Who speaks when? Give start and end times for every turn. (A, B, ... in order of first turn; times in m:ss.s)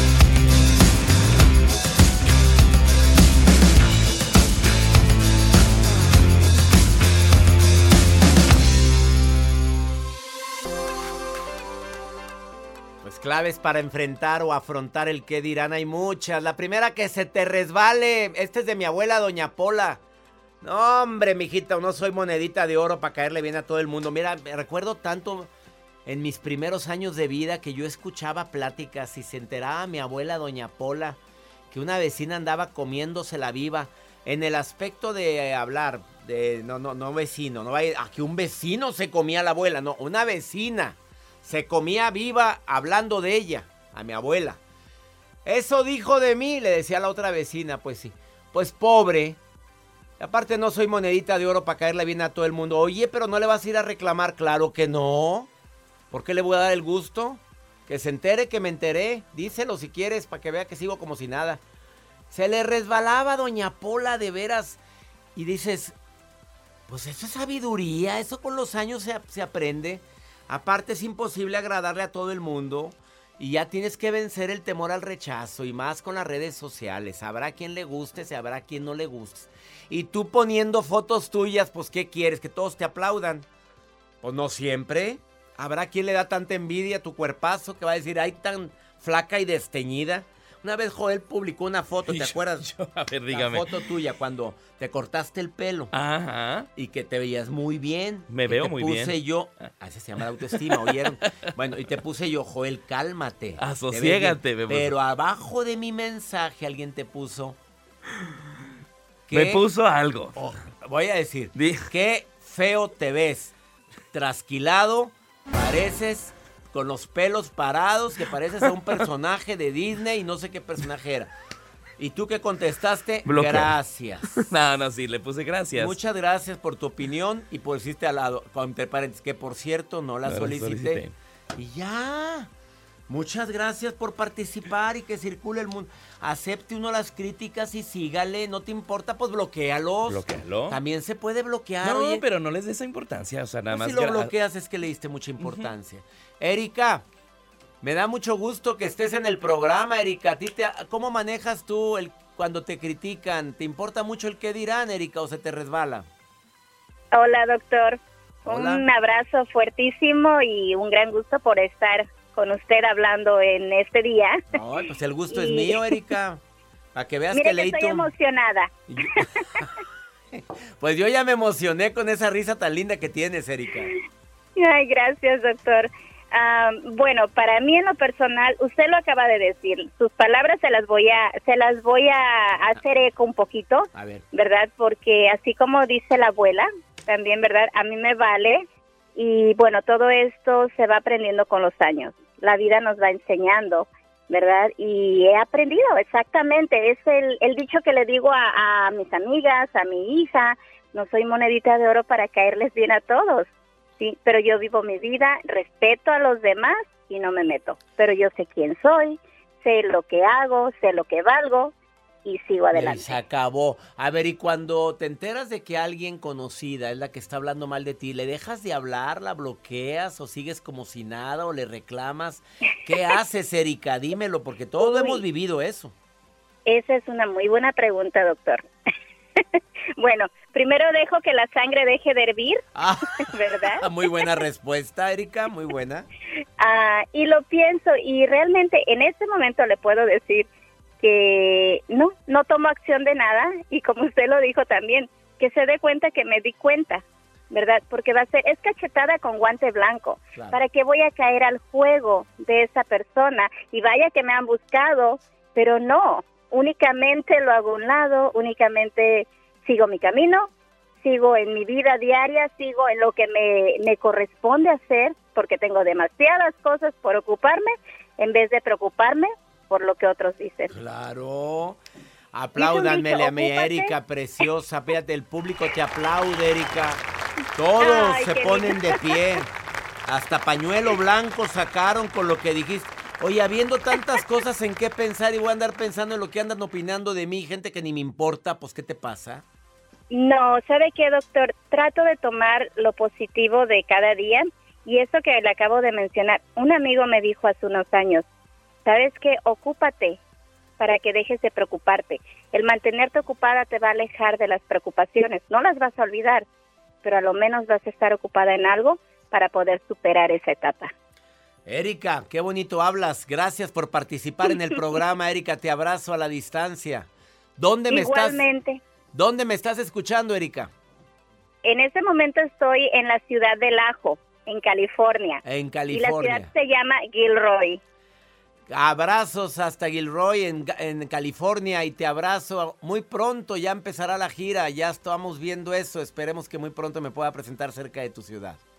0:13.0-0:20.0 A
0:20.6-0:25.5 A
0:26.0-0:31.2 A
0:31.7-0:44.6 A
0:45.4-0:49.4 A
0:50.2-0:55.5 A
0:56.1-1:01.6 A
1:02.3-1:04.8 A
1:05.3-1:06.0 A
1:06.9-1:23.4 A
1:24.2-1:32.7 A
1:32.0-1:33.8 B
1:33.3-1:35.9 A
1:35.9-1:36.7 B
1:36.7-1:47.6 A
1:38.3-1:39.2 B
1:40.5-1:41.2 B
1:43.6-1:44.9 B
1:49.3-1:49.6 A
1:49.3-1:50.4 B
1:50.4-1:53.5 A
1:51.5-1:51.8 B
1:54.1-2:01.3 A
2:02.0-2:04.4 A
2:03.2-2:03.7 B
2:04.3-2:06.0 B
2:05.8-2:11.0 A
2:10.2-2:11.1 B
2:11.6-2:12.5 A
2:13.1-2:22.2 A
2:20.1-2:20.8 B
2:21.8-2:24.3 B
2:23.7-2:27.0 A
2:25.4-2:25.7 B
2:27.8-2:36.1 A
2:37.1-2:44.4 C
2:38.4-2:38.8 A
2:44.5-2:46.4 A
2:45.3-2:46.0 C
2:46.9-2:48.1 A
2:47.3-2:48.7 C
2:48.9-2:49.7 A
2:50.3-2:53.9 A
2:54.6-3:08.6 C
3:03.9-3:04.2 A
3:09.2-3:23.5 C
3:24.0-3:31.7 C
3:32.2-3:33.2 C
3:32.7-3:45.9 A
3:44.8-3:45.2 C
3:46.6-3:48.6 C
3:50.0-3:52.6 C
3:52.8-3:53.1 A
3:53.3-3:53.8 C
3:53.6-3:56.1 A
3:56.6-4:00.5 C
4:01.0-4:20.5 C
4:21.0-4:30.7 C
4:30.7-4:31.8 A
4:32.3-4:37.0 A
4:32.6-4:33.9 C
4:37.6-4:39.5 A
4:37.8-4:39.2 C
4:40.0-4:49.4 A
4:50.1-4:58.2 C
4:58.8-5:00.2 C
5:00.8-5:06.4 C
5:07.0-5:10.9 C
5:11.6-5:18.4 A
5:17.9-5:18.8 C
5:19.1-5:20.7 A
5:21.6-5:27.8 C
5:25.4-5:26.5 A
5:28.7-5:38.6 A